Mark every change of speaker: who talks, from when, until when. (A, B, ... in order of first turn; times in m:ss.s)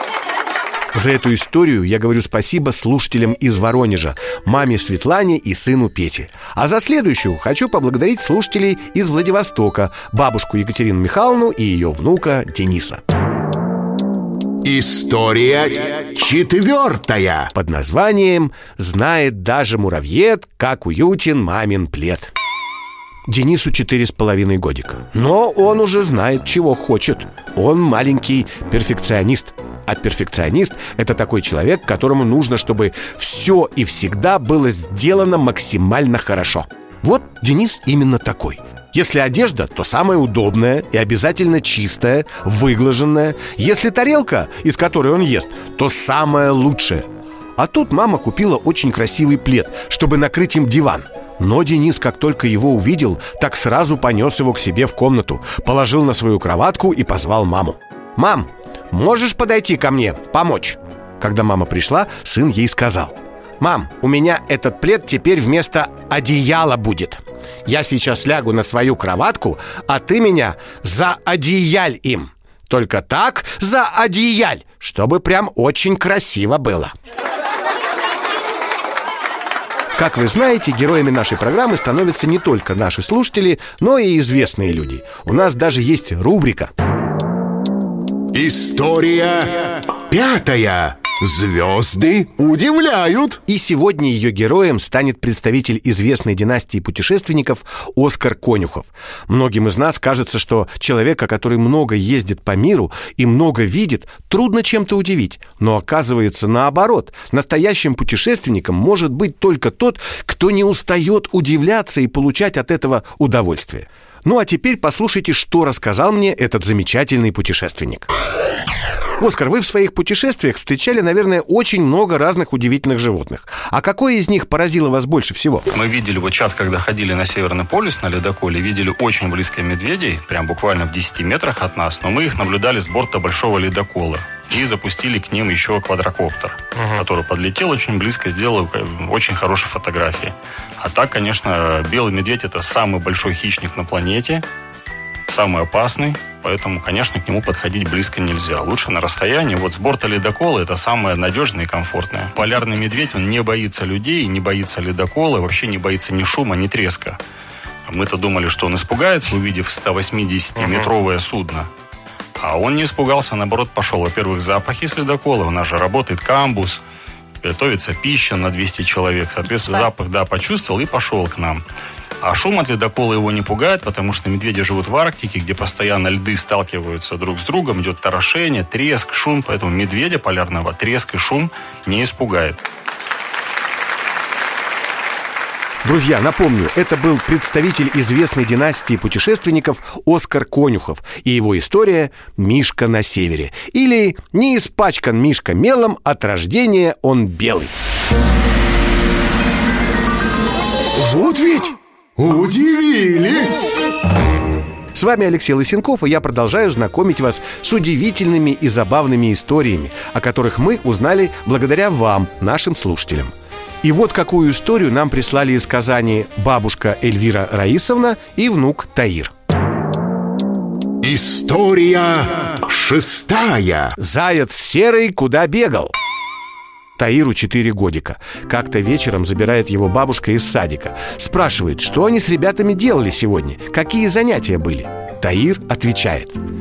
0:00.9-0:13.0 A
0:14.6-0:17.5 B
0:17.5-0:22.3 A
0:23.3-0:47.0 A
0:47.6-1:16.9 A
1:20.0-1:26.7 A
1:28.3-1:33.4 B
1:33.4-1:58.1 A
1:59.2-2:05.7 A
2:05.7-2:24.4 C
2:25.3-2:37.2 C
2:37.9-2:41.7 C
2:42.4-2:46.8 C
2:47.4-2:51.6 C
2:52.2-3:02.6 C
3:05.8-3:17.7 A
3:21.1-3:23.6 B
3:24.9-3:39.3 A
3:41.0-3:43.9 B
3:44.0-3:45.9 A
3:47.0-3:56.4 A